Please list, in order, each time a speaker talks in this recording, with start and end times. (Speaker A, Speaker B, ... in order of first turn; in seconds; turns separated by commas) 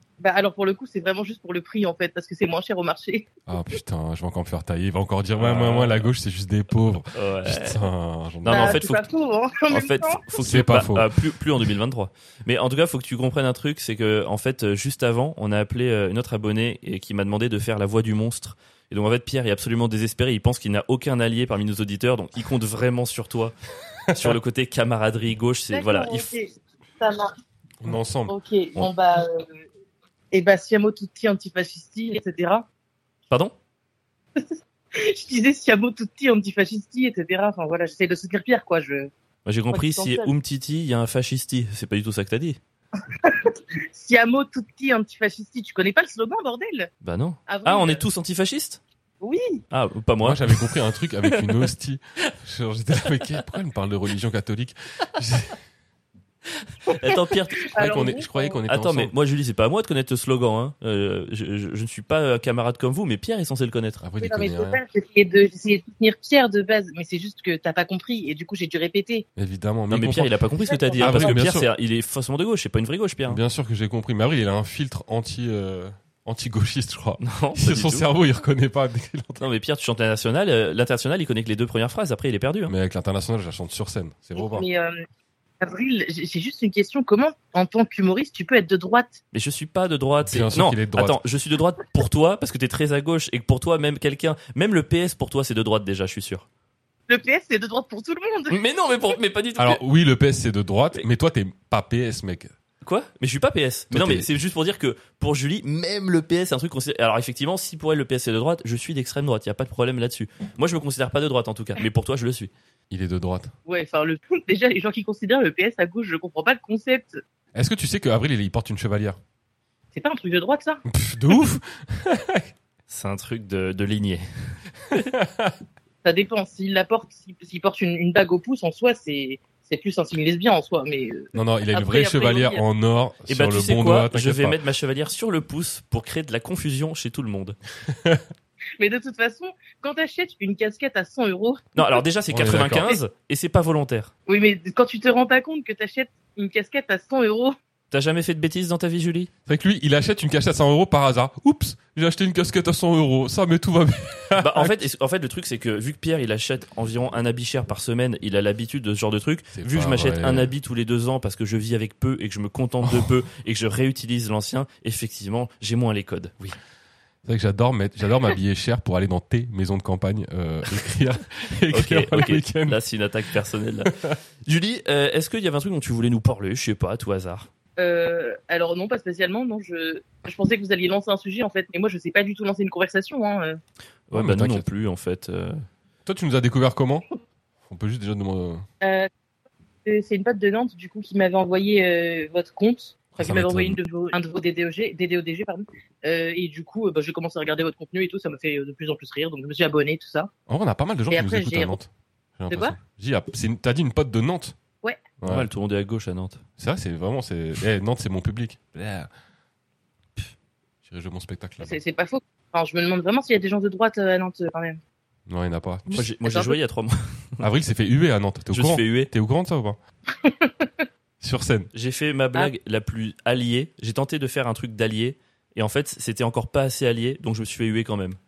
Speaker A: 0.2-3.3, Speaker B: 3.5-8.9, Speaker C: 5.3-6.1, Speaker C: 7.1-7.8, Speaker C: 8.4-9.1, Speaker A: 8.4-10.3, Speaker C: 9.7-23.6, Speaker B: 10.3-11.2, Speaker B: 24.1-24.4, Speaker C: 24.1-26.3, Speaker A: 25.7-27.3, Speaker B: 27.8-28.3, Speaker A: 28.3-29.6, Speaker A: 30.3-32.6, Speaker C: 33.3-33.5, Speaker A: 34.4-39.1, Speaker C: 39.4-42.6, Speaker A: 39.7-40.3, Speaker A: 43.0-46.9, Speaker C: 47.0-48.8, Speaker A: 47.5-48.0, Speaker A: 49.2-49.6, Speaker C: 49.7-50.8, Speaker B: 50.2-55.6, Speaker C: 56.9-57.7, Speaker A: 57.6-58.6, Speaker B: 57.7-59.1, Speaker C: 58.6-64.0, Speaker B: 64.0-64.8, Speaker A: 64.2-69.2, Speaker B: 69.3-70.3, Speaker C: 69.9-73.4, Speaker A: 70.6-71.4, Speaker B: 71.0-71.7, Speaker B: 73.3-79.4, Speaker C: 77.2-78.1, Speaker C: 79.4-82.7, Speaker B: 82.7-84.7, Speaker A: 84.3-85.0, Speaker A: 85.6-89.2, Speaker C: 89.3-96.5, Speaker B: 90.2-91.2, Speaker A: 97.1-98.6, Speaker C: 98.5-99.8, Speaker B: 99.6-102.5, Speaker C: 102.8-112.5, Speaker B: 103.9-104.3, Speaker B: 112.9-113.5, Speaker A: 113.7-117.2, Speaker B: 117.5-119.2, Speaker A: 119.9-120.8, Speaker B: 120.9-122.5, Speaker C: 122.9-125.1, Speaker B: 124.9-125.6, Speaker A: 126.0-132.6, Speaker B: 131.3-134.6, Speaker C: 133.3-137.6, Speaker B: 137.9-138.2, Speaker A: 138.8-142.0, Speaker C: 141.7-144.1, Speaker B: 142.3-143.0, Speaker A: 144.3-147.6, Speaker C: 147.9-149.3, Speaker B: 149.5-154.8, Speaker C: 154.4-166.4, Speaker B: 159.5-160.5, Speaker B: 162.8-163.1, Speaker B: 167.2-172.8, Speaker C: 171.7-177.5, Speaker B: 173.8-174.2, Speaker A: 177.8-183.6, Speaker C: 184.1-185.6, Speaker B: 184.1-184.6, Speaker B: 186.1-187.1, Speaker B: 187.7-188.6, Speaker A: 188.8-189.1, Speaker A: 189.8-200.3, Speaker B: 193.2-193.8, Speaker B: 200.5-204.6, Speaker A: 201.1-201.8, Speaker A: 202.5-202.8, Speaker B: 205.2-205.5, Speaker C: 205.2-206.4, Speaker B: 206.6-209.1, Speaker B: 210.8-211.8, Speaker A: 211.6-214.8, Speaker B: 215.3-216.1, Speaker C: 215.9-217.5, Speaker A: 216.2-216.6, Speaker B: 217.4-219.8, Speaker C: 218.5-219.1, Speaker A: 220.1-220.9, Speaker B: 221.2-221.7, Speaker C: 221.7-228.2